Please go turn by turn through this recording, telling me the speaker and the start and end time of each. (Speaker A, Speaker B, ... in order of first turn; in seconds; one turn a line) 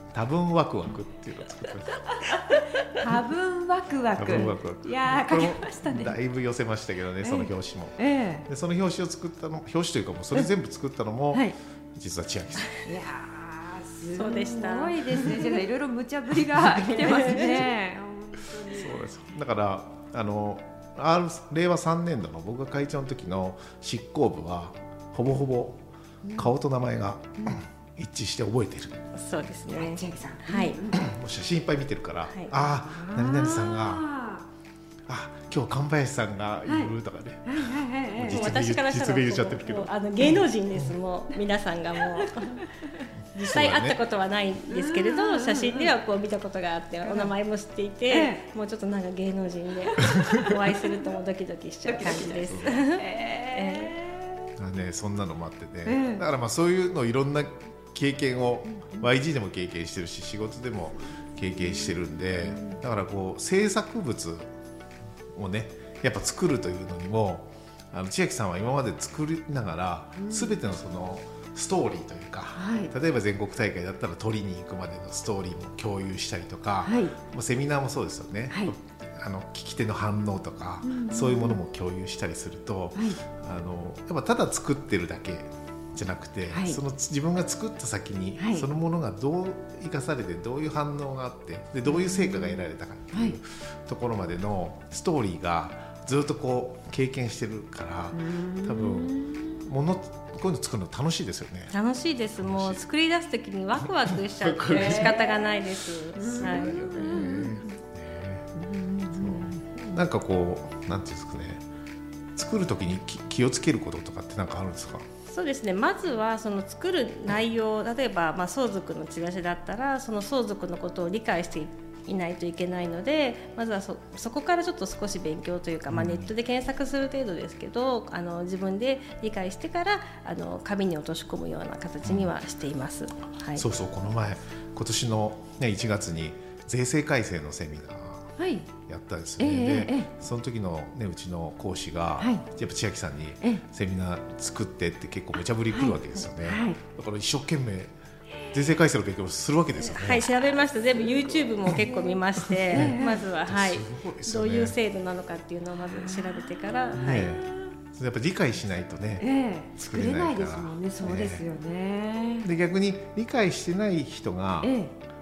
Speaker A: 0.1-2.3
Speaker B: 2.3-6.2
Speaker A: 4.2-12.7
Speaker B: 7.2-8.5
Speaker B: 12.8-19.1
Speaker C: 14.1-15.6
Speaker C: 16.6-17.7
Speaker A: 16.9-17.6
Speaker A: 18.6-29.0
Speaker B: 26.2-26.6
Speaker C: 29.1-30.8
Speaker B: 29.7-31.1
Speaker A: 30.9-34.1
Speaker B: 32.7-34.5
Speaker A: 35.1-41.0
Speaker B: 36.7-36.9
Speaker B: 37.5-38.6
Speaker C: 38.3-42.6
Speaker B: 42.5-43.0
Speaker A: 43.2-44.0
Speaker C: 43.4-54.0
Speaker B: 44.7-45.9
Speaker B: 47.0-47.3
Speaker B: 48.1-48.4
Speaker B: 51.9-54.5
Speaker A: 52.5-52.8
Speaker A: 54.6-64.5
Speaker B: 55.9-56.2
Speaker B: 58.7-59.1
Speaker B: 61.5-62.8
Speaker A: 65.4-101.8
Speaker B: 70.2-70.6
Speaker B: 72.5-72.9
Speaker B: 76.8-77.2
Speaker B: 80.8-81.6
Speaker B: 83.0-83.2
Speaker B: 86.5-86.8
Speaker B: 88.4-88.7
Speaker B: 91.8-93.4
Speaker B: 98.1-99.7
Speaker C: 101.7-107.5
Speaker A: 102.4-102.8
Speaker A: 104.0-108.5
Speaker B: 104.7-105.5
Speaker B: 106.2-107.8
Speaker B: 108.5-109.6
Speaker A: 109.1-111.6
Speaker A: 112.4-115.1
Speaker C: 115.3-133.7
Speaker A: 125.9-126.3
Speaker A: 132.0-132.3
Speaker A: 133.5-138.4
Speaker B: 138.4-138.7
Speaker A: 138.9-147.9
Speaker B: 139.4-140.1
Speaker B: 142.2-142.4
Speaker B: 145.7-146.8
Speaker A: 148.5-150.5
Speaker C: 149.8-157.3
Speaker B: 151.7-152.2
Speaker A: 152.6-154.8
Speaker B: 152.7-153.3
Speaker B: 155.8-157.7
Speaker A: 156.9-161.5
Speaker B: 159.2-162.5
Speaker A: 162.4-164.8
Speaker B: 164.6-164.9